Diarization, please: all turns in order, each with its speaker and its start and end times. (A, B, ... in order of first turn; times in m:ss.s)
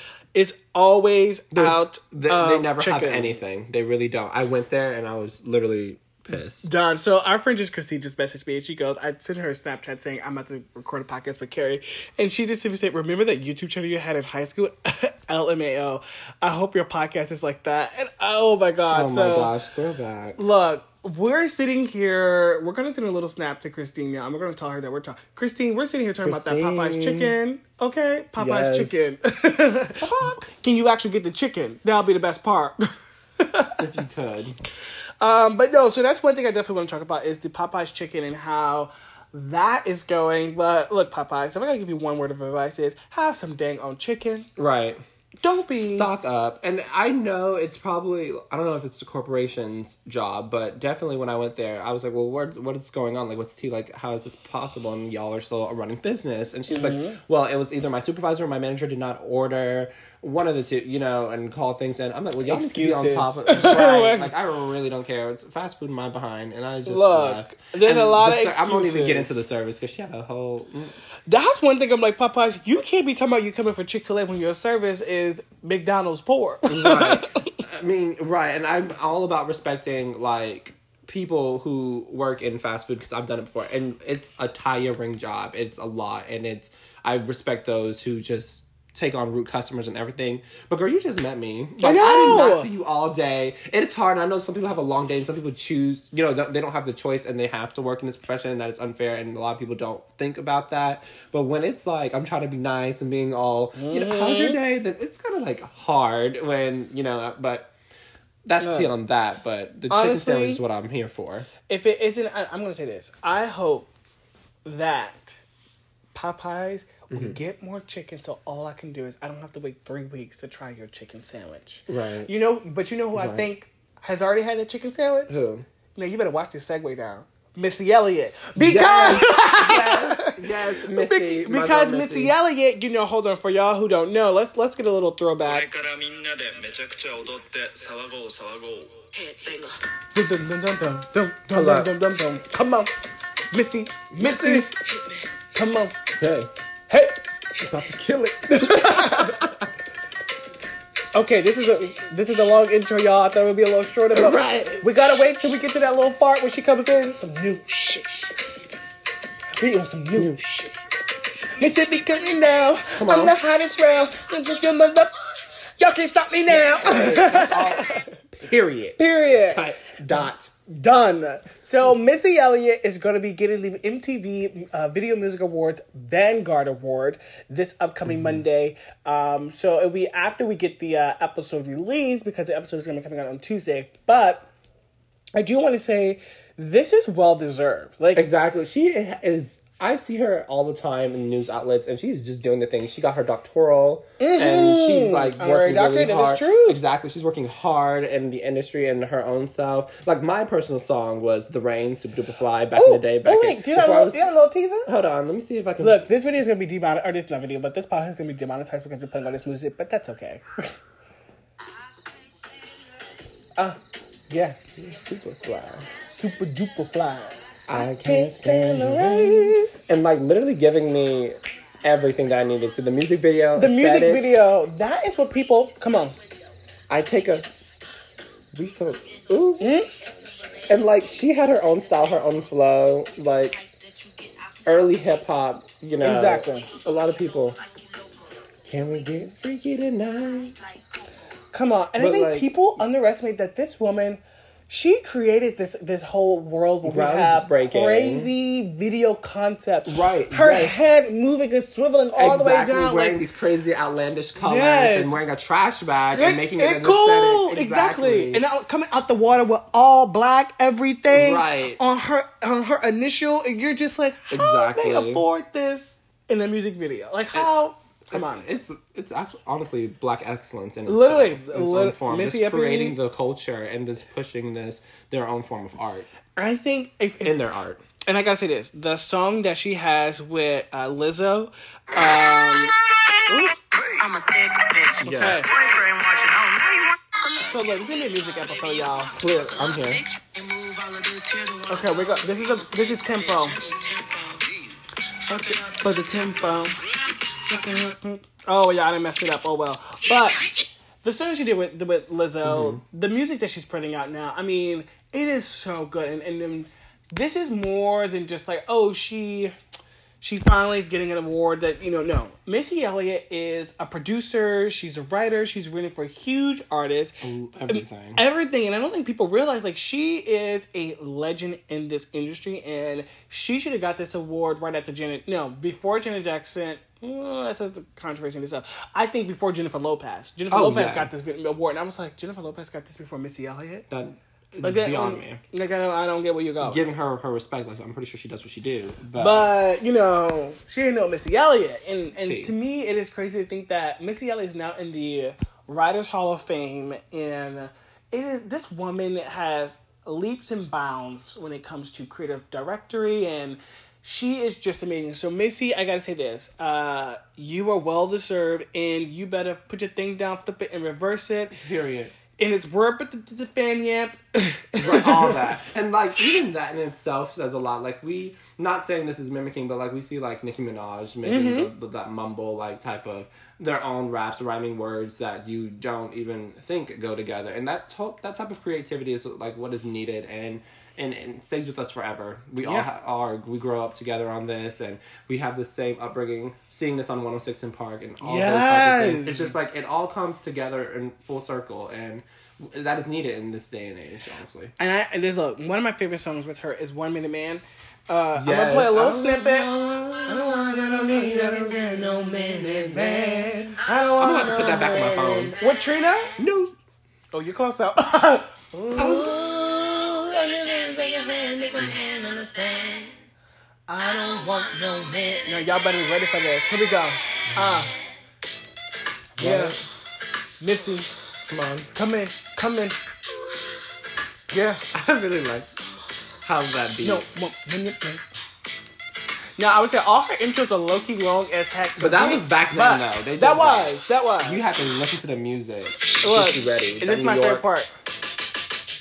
0:00.3-0:03.4 A
0:01.5-0:06.7 B
0:06.6-0:19.5 A
0:18.9-0:20.4 B
0:20.4-0:33.7 A
0:26.2-0:27.3 B
0:28.4-0:29.1 B
0:30.0-0:30.4 B
0:33.8-0:34.6 B
0:35.2-0:44.5 A
0:44.6-0:45.0 B
0:45.4-0:46.1 A
0:45.8-1:11.0 B
0:56.7-0:57.2 A
1:02.4-1:04.3 A
1:06.8-1:09.4 A
1:11.3-1:17.6 A
1:16.7-1:47.7 B
1:31.8-1:32.7 A
1:43.8-1:44.6 A
1:48.4-1:51.5 B
1:48.6-1:48.9 A
1:49.9-1:50.6 A
1:51.7-1:53.9 A
1:54.6-1:55.4 A
1:56.1-2:05.4 A
1:57.1-1:57.4 B
2:01.9-2:02.3 B
2:03.1-2:03.5 B
2:05.3-2:05.6 B
2:05.9-2:15.7 A
2:08.6-2:12.3 B
2:15.5-2:19.6 C
2:20.1-2:23.0 A
2:21.6-2:21.9 B
2:23.5-2:24.7 A
2:24.2-2:24.7 B
2:25.5-2:26.0 A
2:26.2-2:26.5 B
2:26.9-2:27.2 A
2:27.7-2:29.7 B
2:28.5-2:29.4 A
2:31.1-2:38.4 A
2:34.1-2:34.8 B
2:39.6-2:40.7 A
2:40.1-2:40.4 B
2:41.4-2:45.3 A
2:43.0-2:43.4 B
2:45.8-2:48.1 A
2:46.5-2:50.5 B
2:49.0-3:04.5 A
2:58.1-2:58.4 B
3:05.3-3:08.3 A
3:08.1-3:24.3 B
3:14.2-3:16.8 A
3:22.7-3:24.9 A
3:24.8-3:26.1 B
3:25.8-3:30.8 A
3:34.3-3:34.6 A
3:34.8-3:35.9 B
3:36.0-3:39.7 A
3:37.7-3:44.3 B
3:43.6-3:46.2 A
3:46.9-3:47.5 B
3:48.5-3:49.8 B
3:49.6-3:50.1 A
3:50.7-3:53.6 B
3:54.6-3:57.6 B
3:56.0-3:56.7 A
3:58.6-4:00.6 B
4:01.5-4:13.2 A
4:02.0-4:02.5 B
4:06.8-4:08.3 B
4:09.8-4:10.8 B
4:12.2-4:18.4 B
4:14.4-4:15.2 A
4:16.1-4:28.5 A
4:21.1-4:21.8 B
4:24.3-4:25.2 B
4:28.1-4:36.1 B
4:30.8-4:33.0 A
4:36.4-4:37.4 A
4:37.2-4:37.8 B
4:38.0-4:42.7 A
4:43.3-4:43.6 A
4:43.7-4:47.6 C
4:45.0-4:45.4 B
4:45.0-4:45.5 A
4:47.4-4:49.1 A
4:49.1-4:50.0 B
4:49.2-4:54.6 C
4:51.7-4:53.6 A
4:55.3-4:56.8 A
4:55.3-4:56.3 C
4:57.2-4:57.5 C
4:57.5-5:00.5 A
5:01.0-5:09.5 A
5:02.4-5:02.8 B
5:10.2-5:33.9 A
5:17.2-5:18.2 B
5:30.5-5:31.2 B
5:33.9-5:35.4 B
5:34.6-5:36.8 A
5:36.6-5:39.5 B
5:39.2-6:01.6 A
5:42.2-5:42.5 B
6:01.6-6:02.1 B
6:02.4-6:05.5 A
6:04.8-6:34.7 B
6:11.2-6:11.7 A
6:22.6-6:22.9 A
6:28.2-6:29.6 A
6:34.8-6:46.4 A
6:38.3-6:39.4 B
6:40.9-6:43.2 B
6:44.2-6:45.6 B
6:46.4-6:46.8 B
6:47.3-6:53.1 A
6:48.9-6:49.4 B
6:53.9-6:57.9 A
6:57.5-6:57.9 B
6:59.4-6:59.8 A
6:59.4-6:59.8 B
7:00.6-7:03.0 A
7:04.5-7:04.8 A
7:04.9-7:05.7 B
7:06.4-7:07.2 B
7:07.0-7:08.2 A
7:09.6-7:14.6 A
7:12.0-7:17.6 B
7:16.2-7:17.9 A